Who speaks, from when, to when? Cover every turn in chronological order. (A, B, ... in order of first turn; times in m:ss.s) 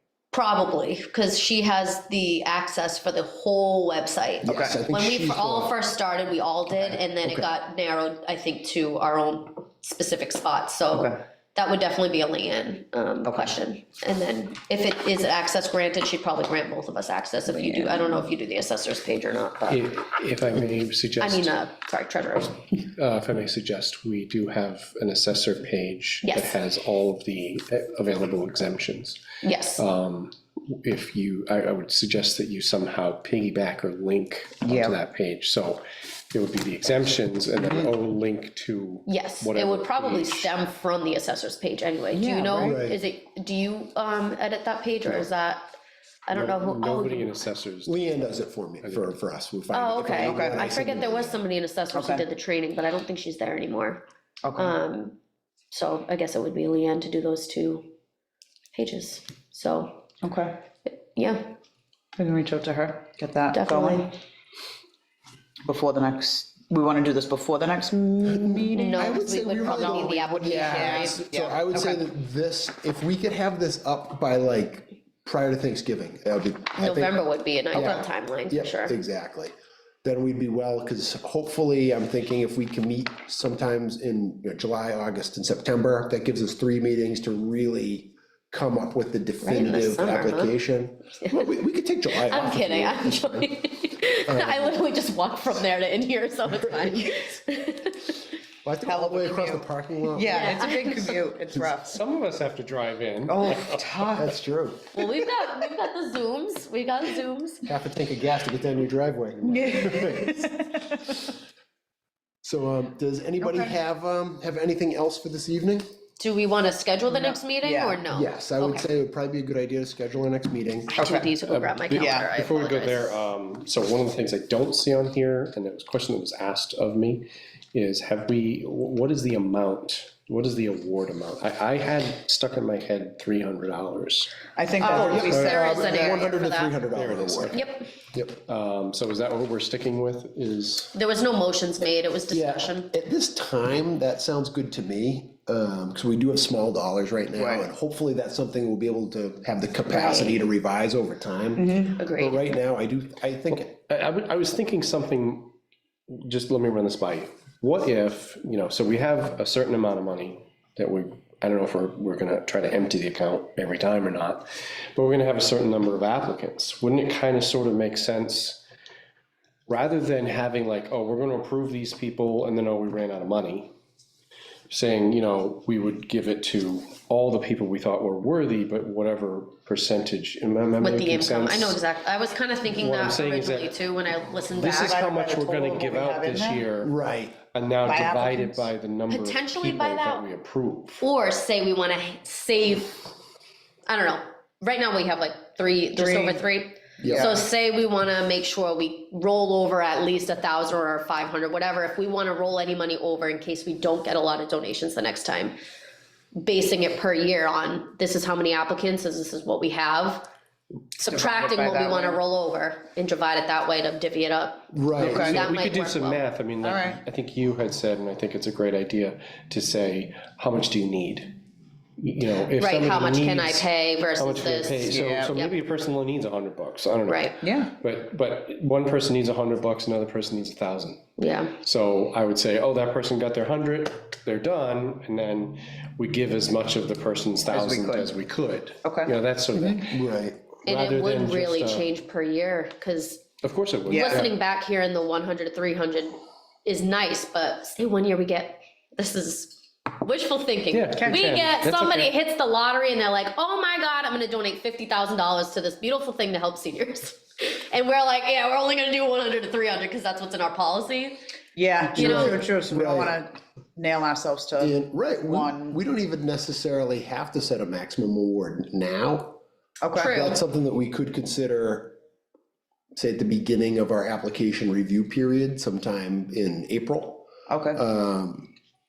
0:00.3-0:19.9 A
0:04.4-0:05.8 B
0:04.5-0:04.8 C
0:10.9-0:11.2 C
0:13.2-0:13.5 C
0:17.6-0:18.0 C
0:19.7-0:21.6 D
0:21.2-0:22.7 A
0:22.9-0:29.2 D
0:26.2-0:26.6 A
0:29.4-0:29.8 A
0:29.8-0:40.5 D
0:34.6-0:35.0 C
0:39.1-0:45.6 A
0:42.1-0:42.8 C
0:42.6-0:43.0 B
0:46.3-0:47.4 A
0:46.3-0:48.0 D
0:47.9-0:51.4 B
0:48.8-0:49.1 D
0:49.7-0:54.0 A
0:50.2-0:50.7 C
0:51.9-0:52.2 C
0:54.4-0:54.8 C
0:54.6-0:55.2 A
0:55.7-0:57.9 A
0:58.7-1:00.1 A
1:00.2-1:00.6 C
1:00.9-1:01.6 A
1:02.2-1:04.1 C
1:03.5-1:04.1 A
1:05.6-1:12.0 C
1:08.3-1:17.2 B
1:08.8-1:11.2 A
1:16.8-1:19.0 A
1:17.7-1:33.5 B
1:17.8-1:18.0 C
1:29.4-1:30.6 A
1:32.2-1:38.2 A
1:34.3-1:34.8 B
1:38.6-1:40.6 B
1:38.8-1:42.0 C
1:40.3-1:41.2 A
1:41.8-1:43.9 D
1:43.3-1:44.3 C
1:44.1-1:45.0 B
1:44.9-1:47.7 A
1:47.7-1:50.5 B
1:49.5-1:50.8 C
1:52.4-1:55.8 B
1:53.4-1:53.7 C
1:56.2-1:58.8 A
1:57.1-1:58.0 C
1:58.1-2:00.9 B
2:00.9-2:01.3 C
2:01.0-2:03.2 A
2:01.5-2:14.4 D
2:02.0-2:02.3 C
2:14.6-2:16.2 C
2:14.8-2:16.8 A
2:14.9-2:17.6 B
2:15.3-2:15.6 D
2:16.8-2:17.7 D
2:17.5-2:17.9 A
2:18.1-2:18.4 B
2:18.5-2:20.9 D
2:20.9-2:22.9 A
2:22.3-2:33.7 B
2:27.4-2:27.7 C
2:29.9-2:30.4 A
2:31.6-2:32.0 C
2:32.0-2:32.4 A
2:33.5-2:35.5 D
2:36.1-2:48.6 D
2:49.7-2:53.7 D
2:54.7-3:01.8 D
3:00.8-3:05.0 A
3:02.7-3:03.8 D
3:04.6-3:11.0 D
3:04.6-3:06.7 C
3:06.8-3:07.4 B
3:07.8-3:08.7 C
3:09.1-3:10.3 A
3:11.0-3:13.1 A
3:13.9-3:25.6 A
3:16.0-3:16.4 C
3:17.0-3:17.4 B
3:17.0-3:17.4 C
3:26.4-3:30.3 A
3:31.0-3:36.3 A
3:31.1-3:32.2 C
3:34.7-3:35.3 B
3:35.0-3:41.3 D
3:35.0-3:35.5 C
3:36.6-3:37.0 C
3:42.0-3:51.0 D
3:42.6-3:45.5 A
3:44.9-3:45.3 C
3:47.1-3:47.3 A
3:47.4-3:47.7 C
3:51.2-3:51.6 A
3:51.6-4:00.0 D
3:57.5-3:58.1 C
3:58.8-3:59.8 C
3:59.6-4:00.5 B
4:00.6-4:01.9 D
4:00.7-4:03.3 A
4:03.4-4:04.3 D
4:03.9-4:04.3 C
4:03.9-4:21.2 A
4:10.7-4:12.1 D
4:11.0-4:11.4 C
4:21.6-4:25.8 C
4:22.0-4:22.5 A
4:22.0-4:23.2 B
4:24.6-4:29.4 B
4:29.8-4:30.2 C
4:30.0-4:30.4 A
4:30.0-4:32.0 B
4:32.9-4:38.5 B
4:37.5-4:37.8 C